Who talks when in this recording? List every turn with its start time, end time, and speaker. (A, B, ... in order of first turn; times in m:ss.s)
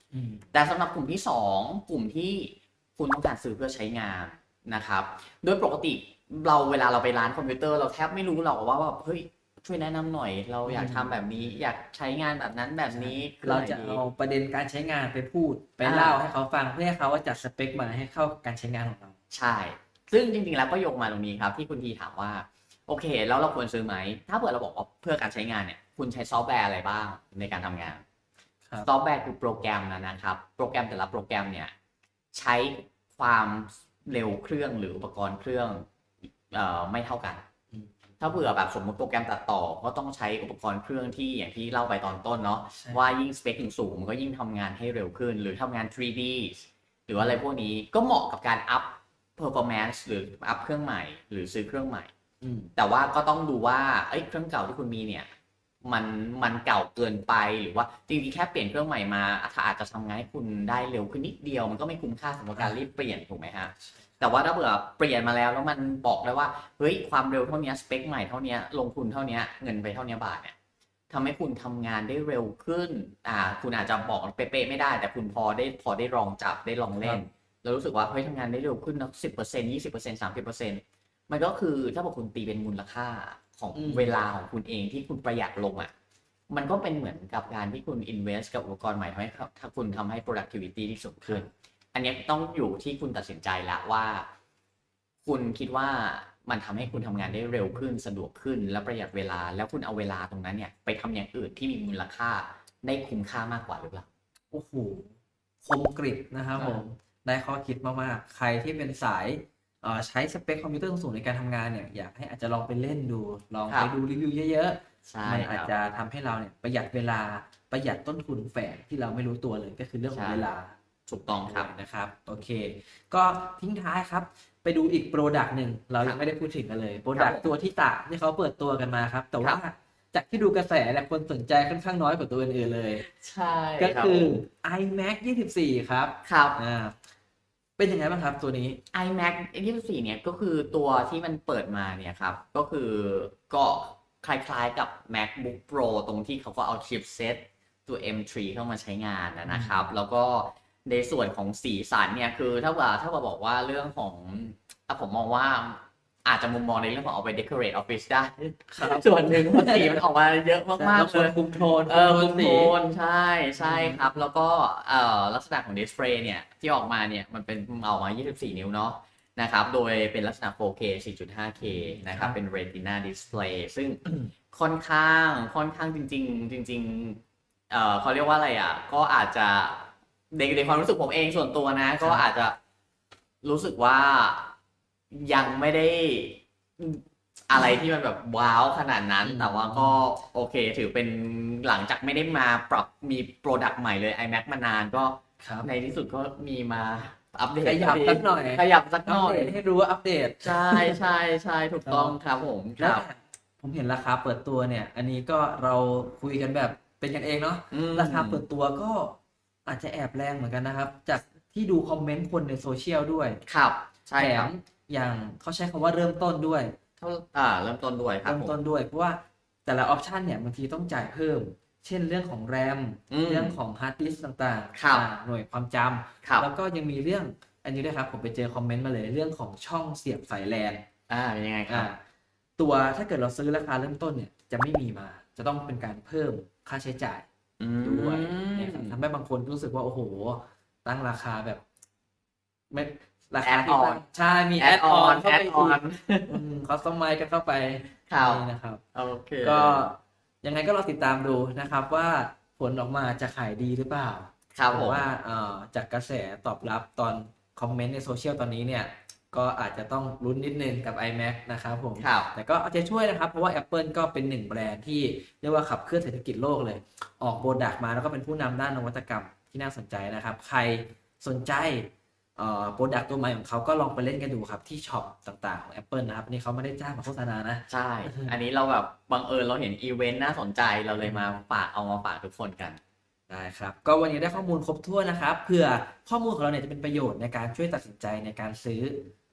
0:00.1-0:00.4 A
0:00.5-0:14.0 B
0:10.6-0:11.2 A
0:12.9-0:19.1 A
0:15.8-0:16.2 B
0:19.3-0:28.0 B
0:28.8-0:31.7 B
0:32.3-0:35.9 B
0:36.5-0:37.4 B
0:38.2-0:52.1 B
0:42.8-0:43.1 A
0:47.2-0:47.4 A
0:52.4-0:52.7 A
0:52.8-0:55.3 B
0:55.8-1:10.6 B
1:11.1-1:25.9 B
1:17.0-1:17.2 A
1:23.7-1:24.1 A
1:26.5-1:34.3 B
1:35.2-1:44.0 B
1:37.0-1:37.4 A
1:44.5-1:45.1 A
1:45.6-2:00.7 A
1:46.6-1:46.8 B
1:55.0-1:55.7 B
2:00.1-2:00.5 B
2:01.1-2:01.7 B
2:01.4-2:13.0 A
2:07.1-2:07.5 B
2:13.0-2:14.4 B
2:13.8-2:17.0 A
2:16.2-2:16.6 B
2:17.8-2:18.8 A
2:18.9-3:02.6 B
2:29.5-2:29.9 A
2:38.7-2:40.0 A
2:40.8-2:42.8 A
2:43.6-2:44.1 A
2:51.6-2:52.4 A
3:03.4-3:04.5 B
3:05.1-3:19.6 B
3:09.2-3:10.0 A
3:15.4-3:15.7 A
3:17.6-3:21.0 A
3:20.4-3:23.0 B
3:21.8-3:22.2 A
3:22.8-3:33.4 A
3:27.7-3:28.4 B
3:33.5-3:34.5 B
3:34.2-3:36.7 A
3:37.0-3:38.6 B
3:38.2-3:50.8 A
3:43.1-3:43.6 B
3:44.7-3:45.1 B
3:46.2-3:46.5 B
3:51.1-3:51.9 B
3:51.7-3:52.0 A
3:52.6-3:57.2 A
3:57.6-3:59.0 B
3:57.8-4:01.6 A
4:02.7-4:08.8 A
4:03.4-4:04.0 B
4:04.6-4:06.4 B
4:08.1-4:08.4 B
4:08.9-4:09.9 B
4:09.4-4:38.4 A
4:14.5-4:15.1 B
4:22.0-4:22.3 B
4:37.7-4:42.8 B
4:41.0-4:41.3 A
4:43.3-4:49.1 A